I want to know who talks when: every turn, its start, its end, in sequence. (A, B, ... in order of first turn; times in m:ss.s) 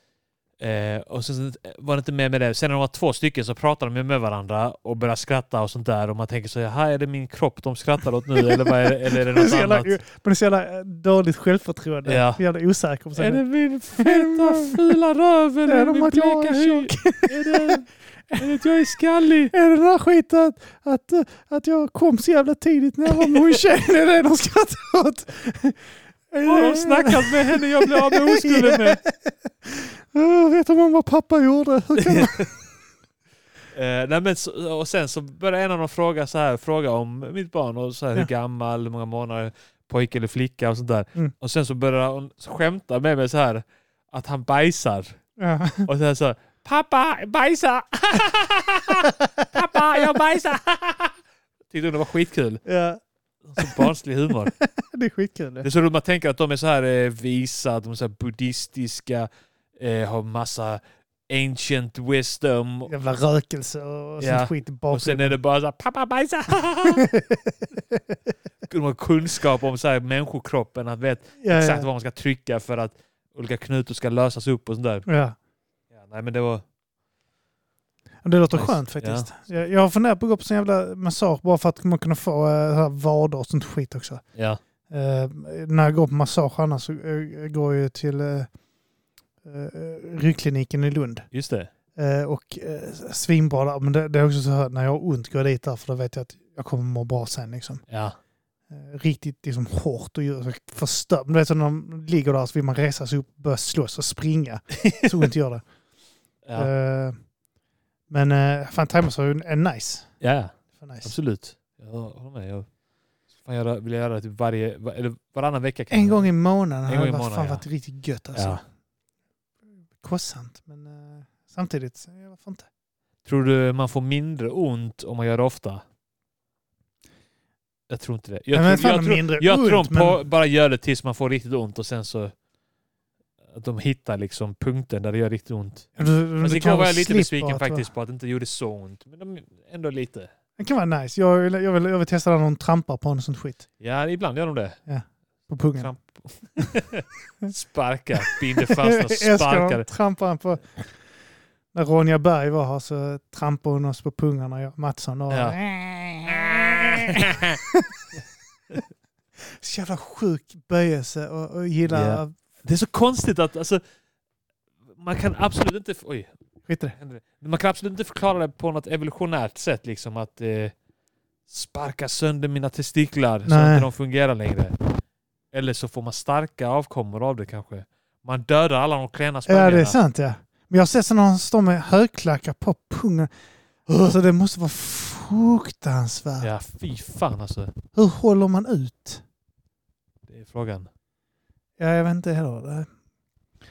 0:00.6-0:10.0 A
0:08.4-0:13.4 B
0:12.0-0:12.4 A
0:13.2-0:19.5 A
0:14.0-0:14.9 B
0:15.7-0:17.8 B
0:19.5-0:32.5 B
0:23.1-0:23.6 A
0:26.4-0:29.0 A
0:32.0-0:32.5 A
0:33.7-0:45.2 A
0:45.4-0:45.9 B
0:45.9-0:51.2 A
0:51.7-0:52.6 A
0:52.6-0:53.0 B
0:53.4-0:54.5 A
0:53.6-0:53.9 B
0:54.5-0:55.7 B
0:55.6-1:02.9 A
1:02.9-1:05.4 B
1:04.2-1:07.1 A
1:06.9-1:08.0 B
1:08.7-1:15.1 A
1:11.4-1:11.9 B
1:15.1-1:15.4 B
1:16.0-1:16.6 A
1:18.2-1:24.2 B
1:18.5-1:19.3 A
1:24.4-1:24.6 A
1:24.9-1:28.5 B
1:29.4-1:31.3 B
1:31.3-1:31.7 A
1:32.0-1:37.8 B
1:37.9-1:38.2 A
1:38.7-1:45.6 B
1:44.7-1:45.1 A
1:46.6-1:47.2 B
1:48.1-1:50.2 B
1:50.2-1:52.7 A
1:50.8-1:51.1 B
1:53.4-1:56.3 A
1:55.9-1:58.6 B
1:56.9-1:57.6 A
1:58.4-1:58.6 A
2:00.0-2:02.7 B
2:03.2-2:05.8 A
2:07.9-2:12.3 A
2:08.5-2:10.2 B
2:13.5-2:20.3 A
2:16.0-2:17.9 B
2:20.6-2:23.7 B
2:23.8-2:24.8 A
2:24.9-2:25.9 B
2:25.8-2:29.9 A
2:28.6-2:30.9 B
2:31.7-2:38.0 B
2:35.3-2:35.6 A
2:36.2-2:37.6 A
2:39.4-2:42.3 B
2:41.9-2:43.8 A
2:45.0-2:46.3 A
2:46.7-2:47.0 B
2:47.0-2:50.7 A
2:51.5-2:54.8 A
2:53.4-2:53.9 B
2:55.5-3:00.0 A
2:59.5-3:03.3 B
3:03.9-3:06.5 B
3:06.4-3:07.7 A
3:08.0-3:09.2 B
3:10.3-3:10.9 A
3:11.8-3:12.9 B